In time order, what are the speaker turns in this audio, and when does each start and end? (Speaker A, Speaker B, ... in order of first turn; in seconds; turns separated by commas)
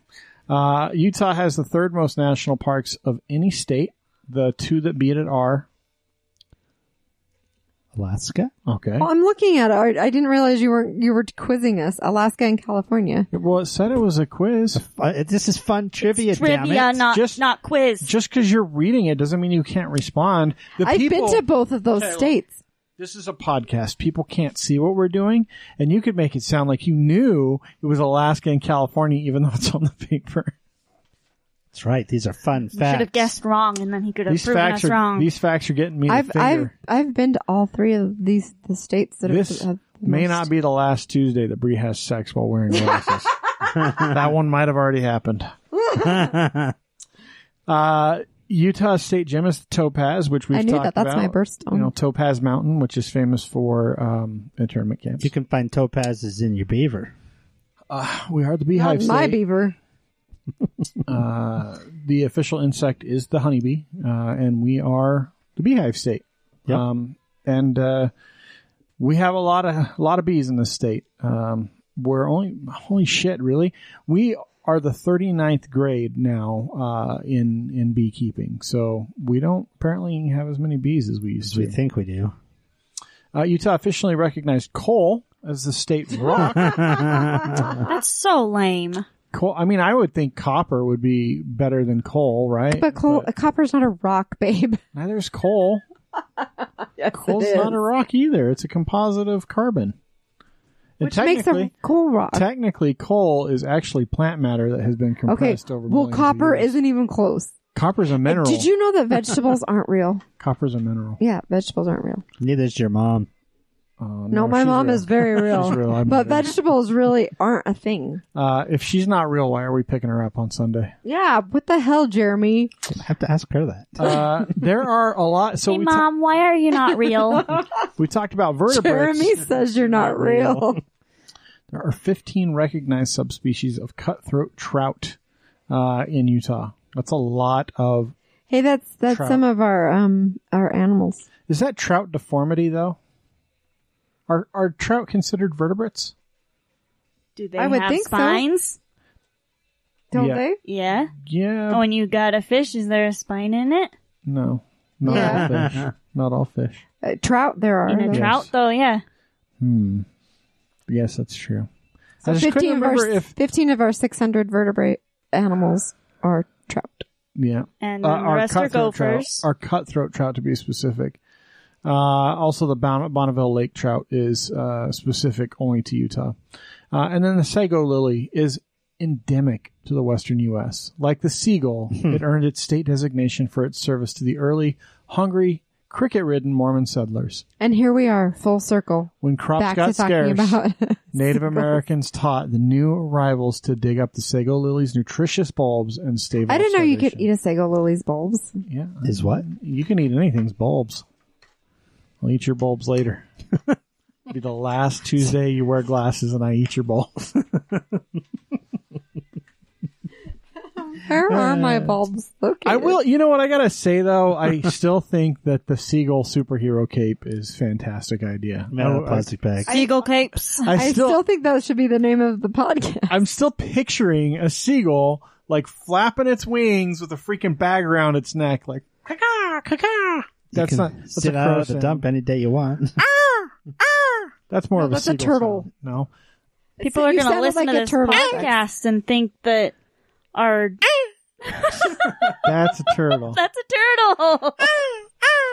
Speaker A: 0.5-5.7, Speaker B: 7.9-8.5, Speaker A: 8.7-9.1, Speaker C: 9.0-13.3, Speaker A: 13.3-14.8, Speaker B: 14.7-17.0, Speaker D: 16.1-18.1, Speaker A: 17.1-17.4, Speaker A: 18.0-21.4, Speaker C: 20.8-22.5, Speaker A: 21.9-22.3, Speaker A: 23.0-30.5, Speaker B: 31.7-33.3, Speaker D: 32.7-35.3, Speaker A: 34.3-36.7, Speaker C: 36.1-40.5, Speaker A: 39.2-45.5, Speaker B: 45.9-46.7, Speaker A: 47.7-55.3, Speaker C: 50.5-51.9, Speaker B: 55.2-57.1, Speaker A: 57.9-59.4, Speaker C: 58.7-59.8, Speaker A: 61.0-68.1, Speaker A: 69.0-81.7, Speaker B: 81.4-82.3, Speaker A: 83.3-87.4, Speaker B: 86.6-87.8, Speaker D: 87.7-89.0, Speaker A: 89.3-93.3, Speaker C: 92.7-94.8, Speaker A: 94.9-95.8, Speaker C: 97.0-97.7, Speaker A: 97.1-100.0, Speaker A: 101.0-101.7, Speaker C: 101.0-102.5, Speaker A: 102.3-106.8, Speaker C: 105.3-107.5, Speaker A: 107.7-108.7, Speaker C: 108.2-110.2, Speaker A: 110.4-111.2, Speaker C: 111.2-112.2, Speaker B: 112.4-113.3, Speaker A: 114.0-116.5, Speaker C: 114.3-118.2, Speaker A: 118.3-120.9, Speaker C: 121.0-122.7, Speaker B: 122.9-124.2, Speaker A: 124.0-126.0, Speaker D: 125.7-127.5, Speaker A: 127.8-130.8, Speaker C: 128.7-130.8, Speaker A: 131.7-135.2, Speaker A: 135.7-138.1, Speaker C: 138.5-141.2, Speaker A: 139.1-139.4, Speaker A: 141.5-143.0, Speaker A: 144.3-146.1, Speaker D: 147.3-148.8, Speaker C: 147.6-148.4, Speaker C: 150.1-150.6, Speaker A: 150.1-150.4, Speaker D: 150.6-151.1, Speaker A: 151.1-151.8, Speaker D: 151.7-153.9, Speaker A: 154.2-156.8, Speaker C: 155.0-155.5, Speaker B: 155.4-155.8, Speaker C: 157.0-158.3, Speaker D: 157.9-159.0, Speaker A: 158.1-158.5, Speaker A: 159.6-160.1, Speaker A: 160.9-161.7, Speaker A: 162.2-163.3, Speaker C: 162.2-167.1, Speaker A: 167.3-171.2, Speaker D: 167.8-169.4, Speaker A: 171.8-176.3, Speaker A: 176.9-187.4, Speaker C: 187.6-191.8, Speaker A: 189.2-190.6, Speaker A: 191.1-197.2, Speaker C: 196.5-198.6, Speaker A: 198.6-201.0, Speaker B: 199.0-199.4, Speaker A: 202.2-203.3, Speaker A: 204.3-207.6, Speaker C: 210.9-213.0, Speaker A: 211.3-211.9, Speaker A: 212.6-219.3, Speaker B: 218.7-219.7, Speaker C: 219.7-219.9, Speaker D: 219.7-220.7, Speaker A: 220.6-221.2, Speaker C: 220.7-223.2, Speaker A: 223.1-232.0, Speaker B: 230.5-233.0, Speaker A: 233.0-233.5, Speaker A: 234.5-236.1, Speaker C: 234.8-235.7, Speaker C: 236.8-238.5, Speaker D: 236.8-239.7, Speaker D: 240.3-242.4, Speaker A: 242.4-243.4, Speaker D: 243.2-244.9